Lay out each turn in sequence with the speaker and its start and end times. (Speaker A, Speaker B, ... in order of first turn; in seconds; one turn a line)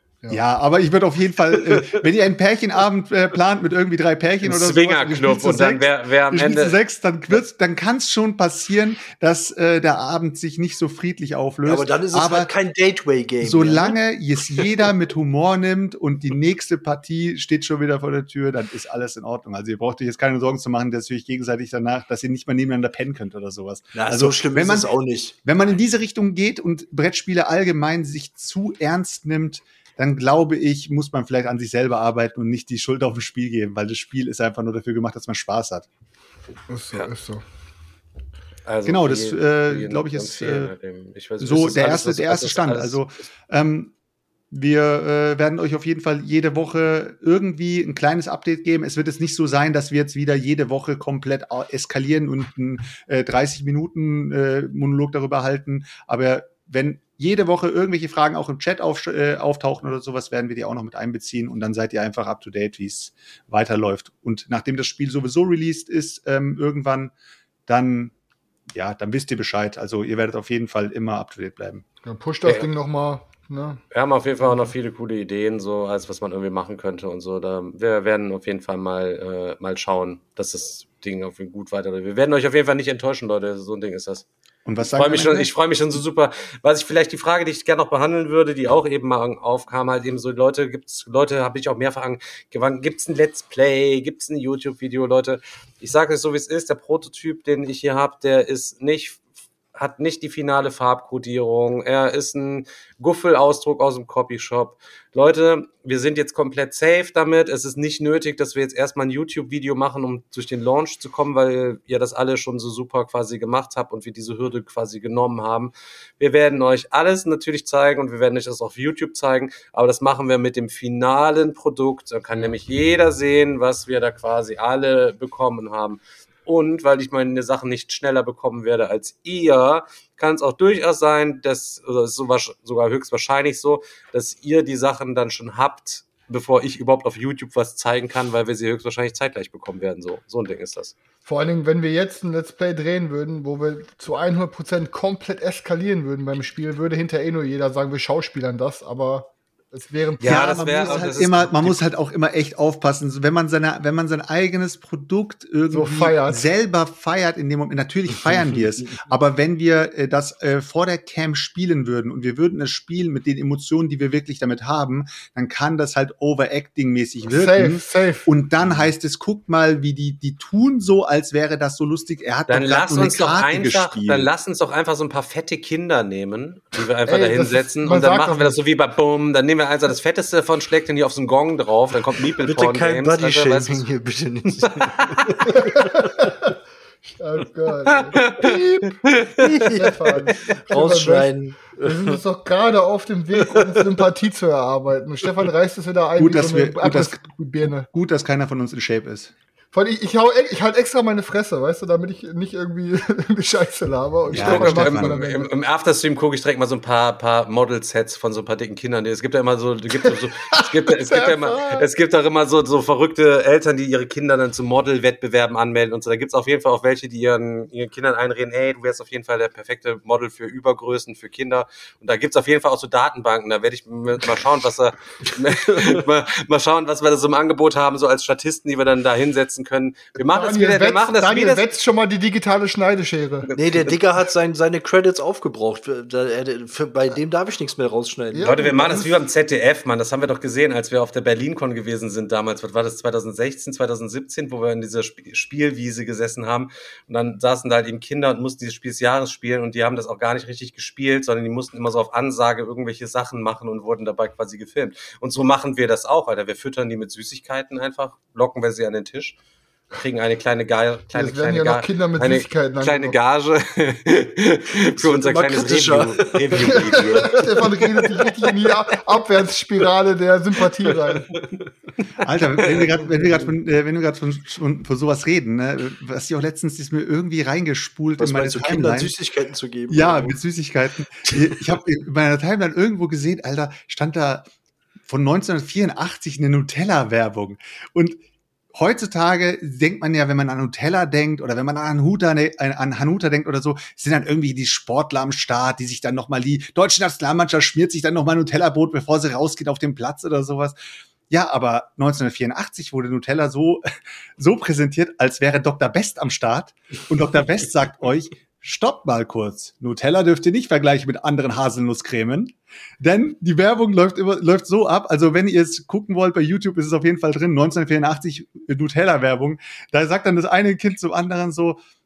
Speaker A: 0.3-12.5
Speaker B: 1.7-2.0
Speaker C: 4.4-6.8
Speaker B: 11.6-14.0
Speaker A: 13.4-35.9
Speaker B: 23.9-25.4
Speaker D: 36.7-37.4
Speaker C: 38.6-43.2
Speaker A: 38.8-40.7
Speaker A: 41.4-43.9
Speaker A: 44.5-67.1
Speaker A: 67.7-68.1
Speaker A: 68.7-71.8
Speaker D: 72.0-73.8
Speaker C: 73.9-84.2
Speaker A: 84.6-85.5
Speaker C: 84.8-99.2
Speaker C: 99.7-140.9
Speaker D: 141.2-151.0
Speaker C: 150.2-151.8
Speaker A: 150.2-174.3
Speaker D: 155.7-156.4
Speaker B: 158.2-159.0
Speaker D: 167.3-168.3
Speaker C: 172.5-183.8
Speaker D: 177.1-178.6
Speaker B: 182.4-186.3
Speaker C: 184.6-185.3
Speaker D: 185.5-186.5
Speaker D: 187.0-189.0
Speaker C: 187.9-189.5
Speaker B: 189.4-192.2
Speaker D: 189.7-197.9
Speaker B: 193.5-193.8
Speaker A: 196.2-199.3
Speaker D: 199.7-205.5
Speaker A: 204.3-205.2
Speaker C: 204.3-231.7
Speaker D: 210.0-211.8
Speaker B: 225.2-226.0
Speaker D: 230.2-233.5
Speaker C: 233.5-234.0
Speaker B: 233.5-238.6
Speaker D: 238.3-239.1
Speaker C: 238.4-259.4
Speaker C: 259.9-267.4
Speaker D: 261.1-263.1
Speaker B: 264.9-268.6
Speaker D: 266.6-271.3
Speaker B: 270.9-271.6
Speaker A: 272.2-279.1
Speaker B: 273.2-273.5
Speaker B: 278.2-280.4
Speaker A: 279.9-284.5
Speaker A: 285.1-288.2
Speaker A: 288.7-300.8
Speaker A: 301.3-321.8